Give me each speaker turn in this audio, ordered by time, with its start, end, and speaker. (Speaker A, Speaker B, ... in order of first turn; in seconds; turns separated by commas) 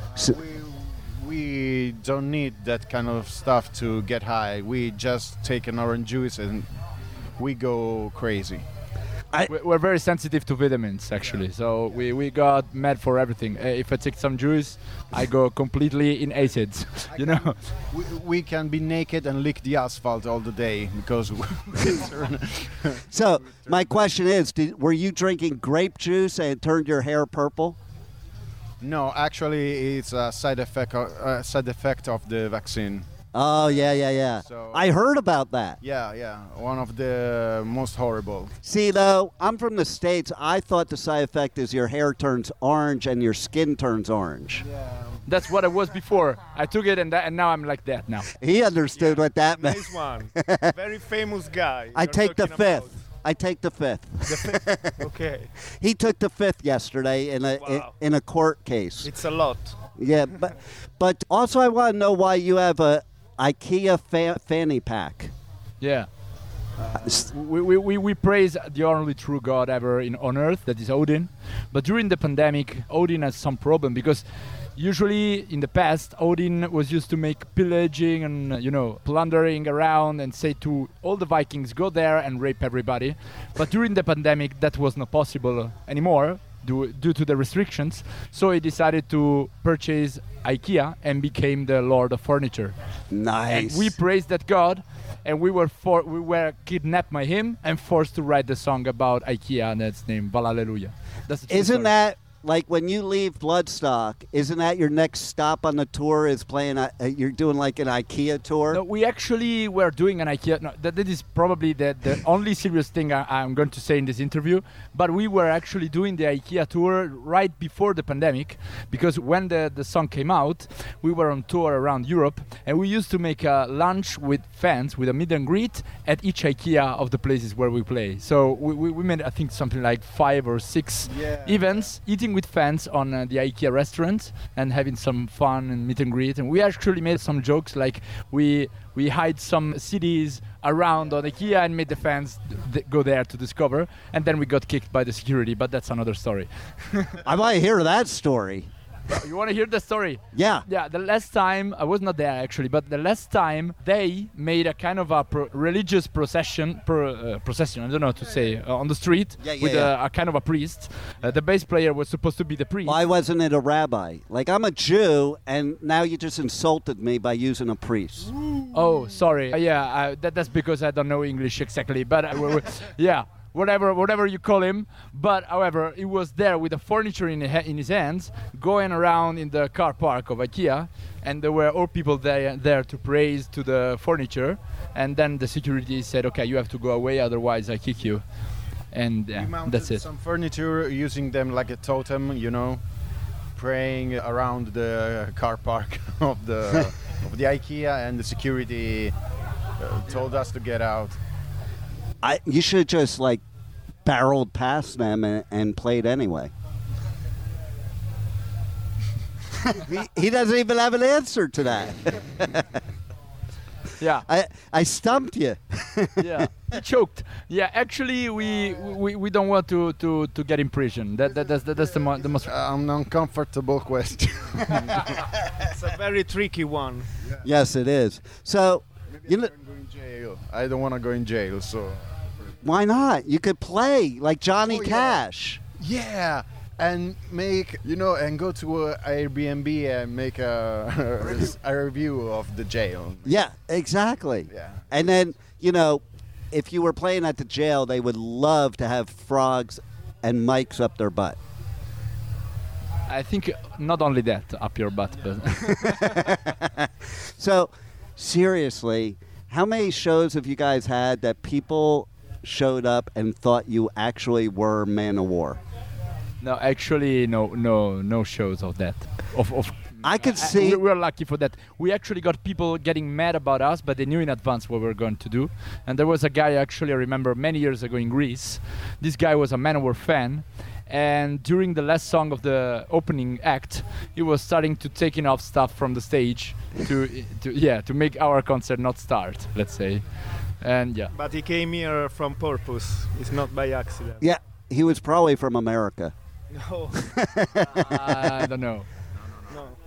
Speaker A: 0.1-6.7, Speaker A: 7.4-8.7, Speaker B: 9.5-17.6, Speaker A: 17.9-24.0, Speaker C: 23.1-27.8, Speaker A: 28.8-33.0, Speaker C: 33.3-35.8, Speaker A: 34.4-34.9, Speaker A: 35.8-38.5, Speaker C: 38.6-44.6, Speaker A: 44.7-45.0, Speaker B: 45.3-48.3, Speaker C: 48.4-50.7, Speaker D: 49.0-52.9, Speaker C: 52.0-55.1, Speaker D: 54.2-55.5, Speaker C: 55.8-59.1, Speaker D: 57.6-57.9, Speaker D: 59.0-59.7, Speaker C: 60.0-65.3, Speaker B: 65.8-66.1, Speaker B: 67.0-74.2, Speaker B: 74.8-92.8, Speaker C: 93.1-94.0, Speaker B: 93.5-101.9, Speaker C: 101.5-108.8, Speaker B: 108.7-147.2, Speaker A: 131.1-131.9, Speaker C: 147.2-148.7, Speaker B: 149.1-163.0, Speaker C: 150.3-150.7, Speaker C: 159.4-159.9, Speaker C: 162.8-168.3, Speaker B: 168.7-188.2, Speaker B: 188.9-190.0, Speaker A: 189.3-192.8, Speaker A: 193.6-199.1, Speaker A: 199.8-201.2, Speaker C: 202.2-203.4, Speaker C: 204.1-206.5, Speaker C: 209.6-212.7, Speaker B: 214.0-214.2, Speaker C: 214.2-216.5, Speaker B: 216.2-222.5, Speaker A: 222.4-225.2, Speaker D: 225.7-227.1, Speaker C: 227.4-229.5, Speaker A: 229.2-232.0, Speaker C: 232.6-235.6, Speaker A: 234.6-235.2, Speaker A: 235.8-243.4, Speaker C: 243.3-251.4, Speaker A: 244.5-244.9, Speaker B: 253.1-256.3, Speaker C: 255.7-265.6, Speaker B: 266.4-290.0, Speaker C: 270.0-270.8, Speaker B: 290.6-291.1, Speaker D: 291.1-294.2, Speaker C: 294.2-296.1, Speaker D: 296.6-296.9, Speaker C: 297.1-298.3, Speaker B: 297.7-298.9